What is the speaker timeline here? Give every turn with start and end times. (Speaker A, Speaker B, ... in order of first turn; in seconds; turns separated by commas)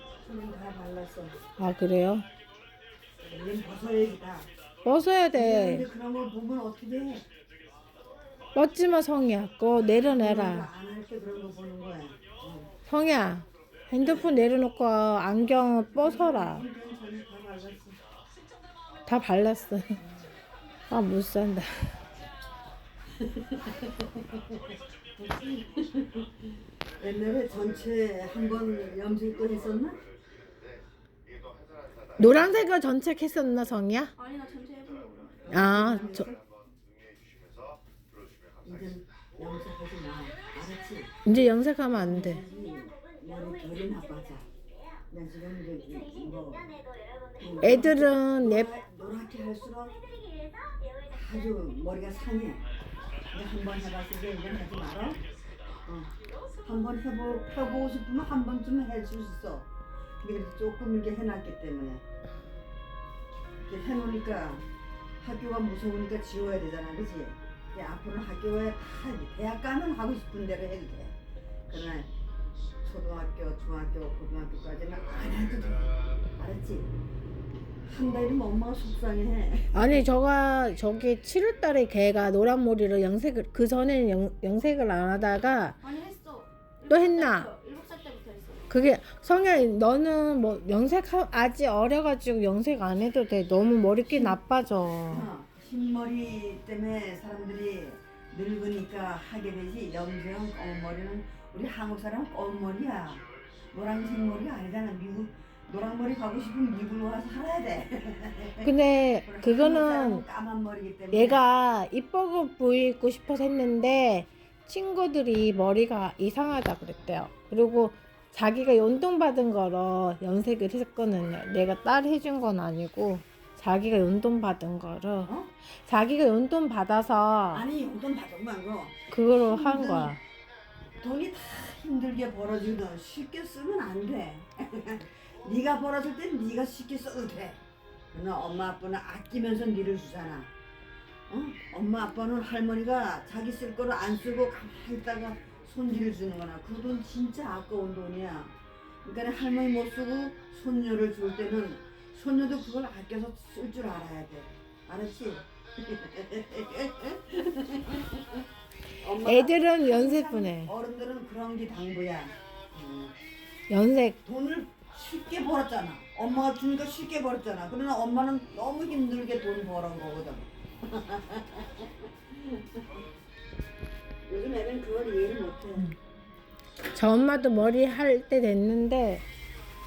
Speaker A: 0.2-1.4, Speaker B: 1.6-2.2, Speaker A: 3.2-4.5, Speaker B: 4.8-5.8, Speaker A: 5.3-7.2, Speaker B: 8.5-10.7, Speaker A: 10.0-12.7, Speaker B: 12.9-16.6, Speaker A: 14.0-14.3, Speaker A: 15.9-18.0, Speaker B: 19.1-20.0, Speaker B: 20.9-22.0, Speaker A: 23.6-23.9, Speaker A: 25.1-26.3, Speaker A: 27.0-30.0, Speaker B: 32.2-34.1, Speaker C: 34.1-35.5, Speaker A: 35.4-36.4, Speaker B: 35.5-36.3, Speaker A: 38.6-41.1, Speaker B: 41.2-42.4, Speaker A: 41.9-44.5, Speaker A: 45.1-46.8, Speaker A: 47.4-50.0, Speaker B: 47.6-48.7, Speaker A: 51.1-52.6, Speaker A: 53.3-55.2, Speaker A: 55.8-56.1, Speaker A: 56.6-59.7, Speaker A: 60.2-62.0, Speaker A: 63.6-64.7, Speaker A: 65.2-71.1, Speaker A: 71.7-72.1, Speaker A: 72.8-76.9, Speaker A: 77.8-80.1, Speaker B: 79.7-85.8, Speaker C: 85.8-88.7, Speaker B: 86.9-87.5, Speaker B: 88.7-95.3, Speaker A: 94.1-94.4, Speaker A: 95.1-108.7, Speaker B: 108.6-110.2, Speaker A: 109.2-111.4, Speaker B: 111.1-127.6, Speaker A: 125.2-125.5, Speaker A: 127.5-130.2, Speaker B: 129.1-130.2, Speaker A: 131.0-137.6, Speaker A: 138.1-140.5, Speaker A: 141.3-158.3, Speaker A: 159.0-163.1, Speaker B: 159.2-160.7, Speaker B: 163.7-164.2, Speaker A: 164.2-172.6, Speaker A: 174.2-175.9, Speaker B: 176.9-179.2